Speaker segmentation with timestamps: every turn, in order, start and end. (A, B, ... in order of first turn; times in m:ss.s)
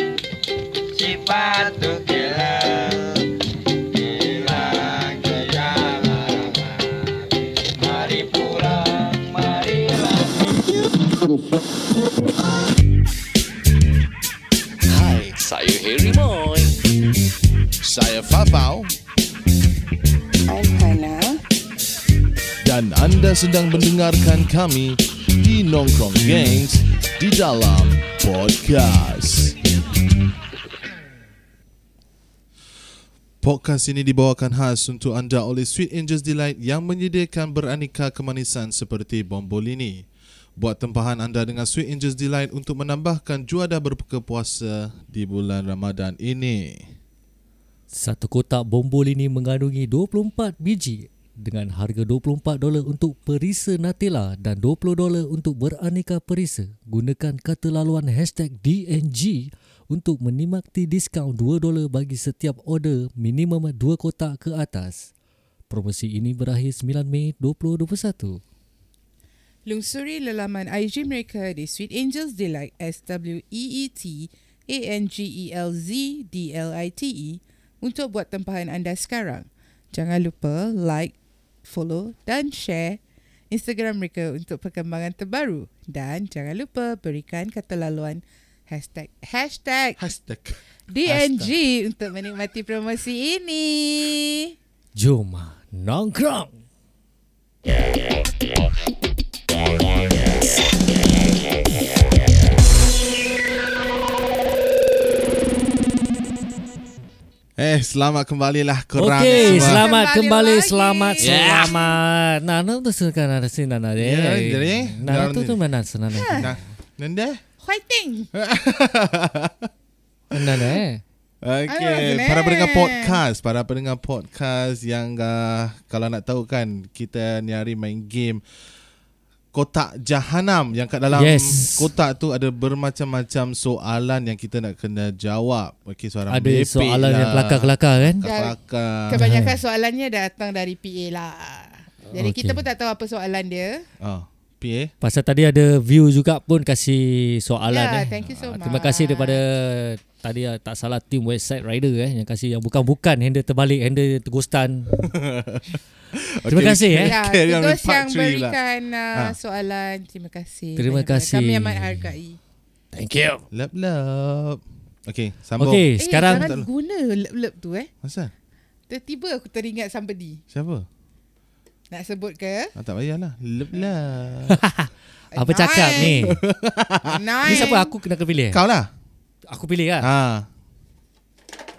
0:01.1-0:03.0 A
0:04.3-0:06.4 A
0:08.0-0:09.5 A
0:14.9-0:16.8 B
0:17.8-0:18.9 C
0:20.5-0:21.4 D
0:22.6-0:29.6 C
0:33.4-0:40.1 C
0:40.6-0:46.9 C
0:47.9-1:05.1 B
1:05.7-1:08.4 B
1:09.7-1:21.1 D
1:21.6-1:23.0 D
1:23.5-1:30.0 D
1:30.0-1:30.6 C
1:30.9-1:34.5 D
1:31.1-1:31.5 B
1:35.0-1:36.6 B
1:47.6-1:49.9 C
1:49.0-1:56.6 B
1:49.3-1:51.8 D
1:51.2-1:51.9 C
1:54.0-1:55.6 C
1:56.1-1:56.5 D
1:56.4-1:57.4 C
1:57.6-1:58.3 D
1:58.3-1:59.7 C
2:00.3-2:01.0 B
2:00.4-2:00.8 C
2:01.4-2:08.4 C
2:01.7-2:03.2 D
2:09.5-2:19.2 C
2:11.1-2:11.9 B
2:16.3-2:18.2 B
2:18.2-2:18.6 D
2:19.1-2:23.9 D
2:19.2-2:19.6 B
2:22.1-2:22.6 B
2:24.0-2:24.9 C
2:25.0-2:35.1 B
2:27.7-2:29.4 D
2:35.0-2:38.6 C
2:36.5-2:37.2 B
2:37.0-2:42.4 D
2:40.8-2:42.0 B
2:42.9-2:43.4 B
2:43.5-2:46.7 C
2:45.6-2:46.5 B
2:46.0-2:47.9 D
2:48.0-2:48.3 C
2:48.9-2:50.4 D
2:50.5-2:50.9 C
2:51.9-2:52.7 D
2:52.8-2:54.6 C
2:54.5-2:56.4 B
2:55.3-2:56.4 D
2:56.1-2:57.7 C
2:57.1-2:57.9 D
2:57.4-2:58.6 B
2:58.5-2:58.9 C
2:59.5-3:00.1 B
3:00.0-3:00.5 C